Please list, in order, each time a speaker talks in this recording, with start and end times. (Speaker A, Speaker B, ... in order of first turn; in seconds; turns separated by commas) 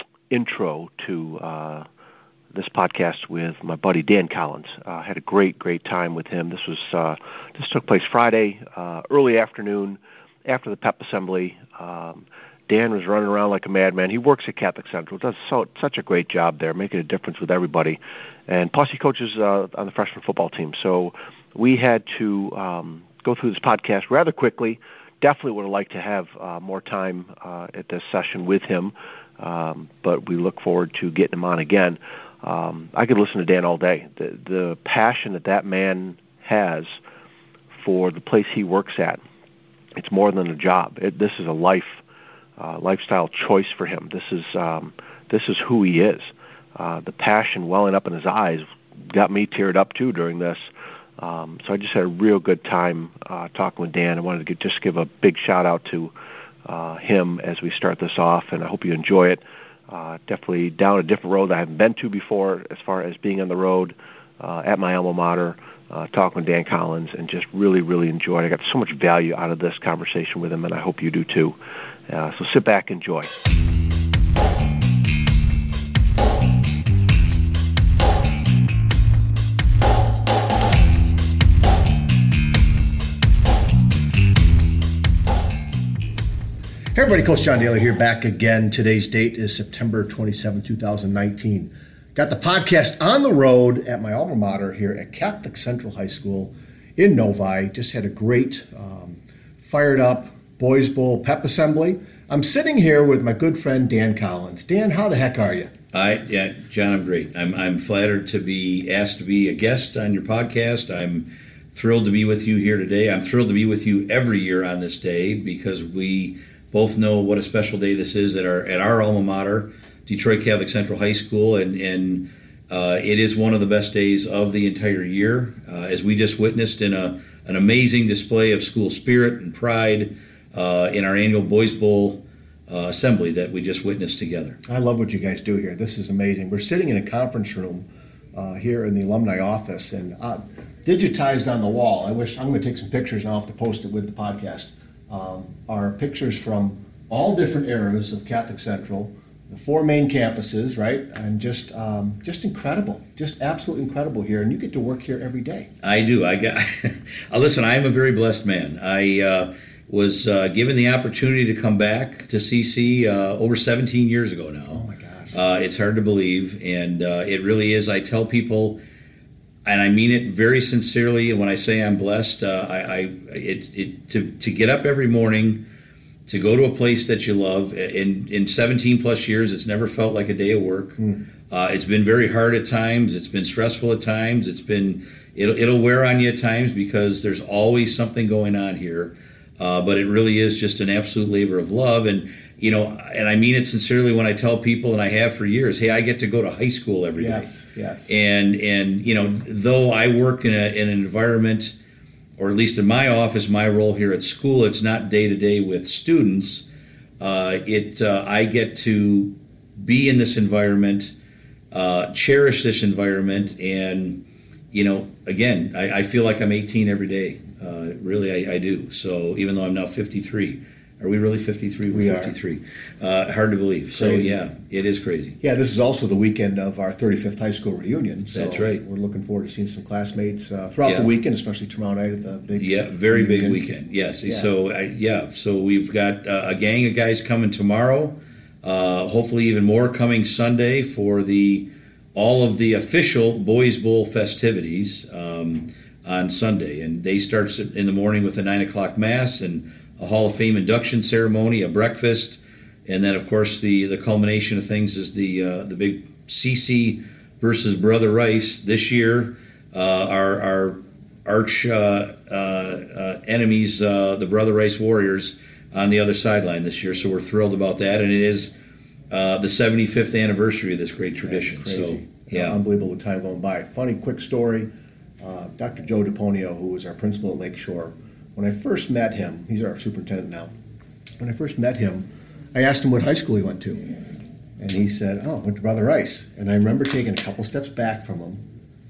Speaker A: 0.3-1.9, Speaker A: 2.5-37.0, Speaker A: 37.8-39.2, Speaker A: 40.0-42.0, Speaker A: 42.6-56.1, Speaker A: 56.6-71.6, Speaker A: 72.1-73.3, Speaker B: 86.9-105.7, Speaker C: 105.9-134.6, Speaker B: 134.7-155.7, Speaker C: 155.8-168.8, Speaker B: 164.7-165.3, Speaker C: 169.7-175.6, Speaker C: 176.3-197.5, Speaker B: 197.2-198.1, Speaker C: 198.1-201.7, Speaker C: 202.4-206.7, Speaker C: 207.2-211.1, Speaker C: 211.7-214.2, Speaker C: 214.7-225.4, Speaker B: 221.9-222.3, Speaker B: 223.9-224.4, Speaker B: 225.4-233.6, Speaker C: 228.3-228.8, Speaker C: 232.6-268.5, Speaker C: 269.1-272.6, Speaker B: 271.2-274.7, Speaker B: 275.2-280.5, Speaker B: 281.2-283.9, Speaker B: 284.6-288.4